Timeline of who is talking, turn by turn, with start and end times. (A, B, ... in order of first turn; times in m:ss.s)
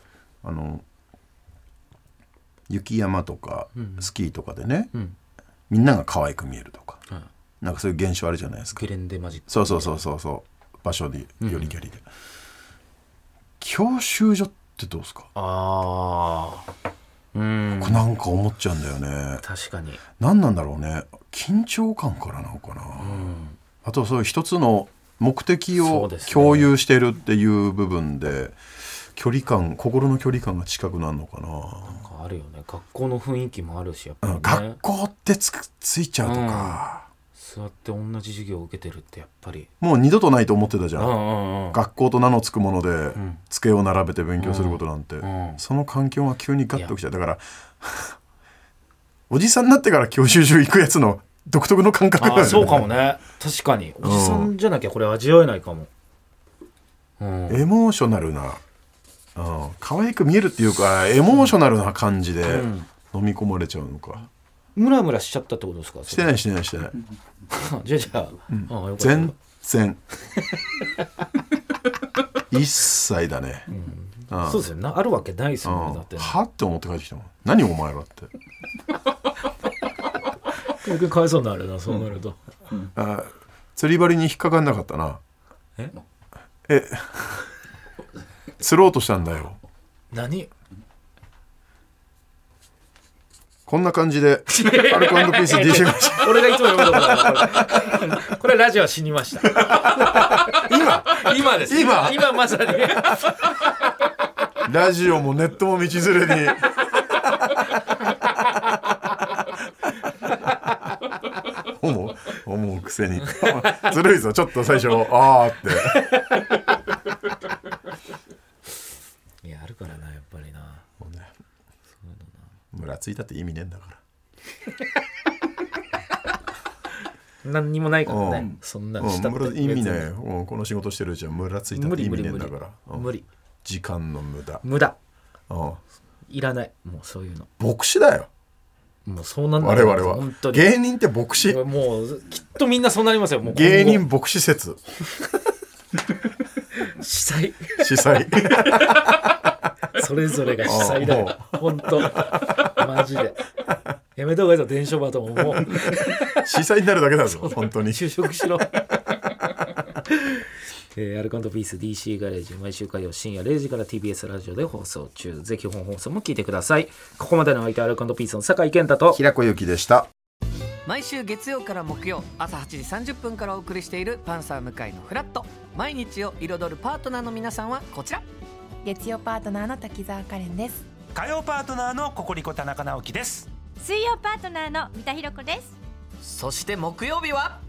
0:00.4-0:00.8 A
0:02.7-0:04.9 A
0:03.8-0:04.0 B
0:05.7-0:07.0 A
0:07.6-0:08.8 A
0:08.7-0:10.0 B
0:09.5-0:12.0 A
0:11.4-0:11.7 B
0:13.6-0:15.3 A
0:15.3-0:16.6 B
0:17.3-0:18.0 B
0:17.8-0:19.4 A
0:19.4-0:20.0 B
0:20.2-0:28.6 A
0:23.0-0:23.6 B
0:25.8-0:26.7 B
0:29.1-0:32.0 A
0:31.8-0:34.8 B
0:34.2-0:37.0 A
0:36.2-0:36.8 B
0:37.3-0:39.7 B
0:39.8-0:41.1 A
0:41.0-0:41.8 B
0:41.7-0:48.1 A
0:43.1-0:43.4 B
0:44.4-0:45.6 B
0:49.3-0:52.9 A
0:52.2-0:55.9 B
0:54.0-0:54.5 A
0:57.2-0:57.6 B
0:57.5-0:58.6 A
0:59.3-1:04.3 A
1:02.4-1:02.9 B
1:04.7-1:06.3 B
1:06.1-1:07.0 A
1:07.5-1:09.3 B
1:08.5-1:10.0 A
1:12.5-1:13.7 A
1:13.7-1:16.4 B
1:14.3-1:14.6 A
1:15.6-1:18.3 A
1:20.7-1:22.4 B
1:22.8-1:25.2 A
1:26.7-1:27.4 A
1:28.6-1:29.6 A
1:30.1-1:30.5 B
1:33.7-1:37.3 A
1:34.5-1:43.5 B
1:40.5-1:41.0 A
1:41.6-1:42.3 A
1:44.6-1:46.7 A
1:51.6-1:56.1 A
1:59.4-2:00.8 B
2:01.0-2:01.3 A
2:02.0-2:02.5 B
2:02.7-2:04.0 A
2:07.4-2:10.1 B
2:08.0-2:13.1 A
2:11.7-2:13.2 B
2:13.6-2:14.6 A
2:14.6-2:15.0 B
2:15.5-2:15.8 A
2:16.3-2:17.5 B
2:17.6-2:18.3 A
2:19.0-2:20.7 B
2:19.6-2:21.6 A
2:21.4-2:24.0 B
2:23.4-2:24.8 A
2:26.8-2:27.9 B
2:27.8-2:28.8 A
2:28.4-2:29.1 B
2:29.9-2:33.5 B
2:30.6-2:31.5 A
2:34.1-2:36.4 B
2:36.4-2:38.0 A
2:37.5-2:38.8 B
2:40.9-2:49.2 B
2:49.1-2:50.1 A
2:50.8-2:58.2 C
2:58.8-3:00.8 D
3:01.1-3:03.5 E
3:03.8-3:05.8 F
3:06.2-3:07.6 C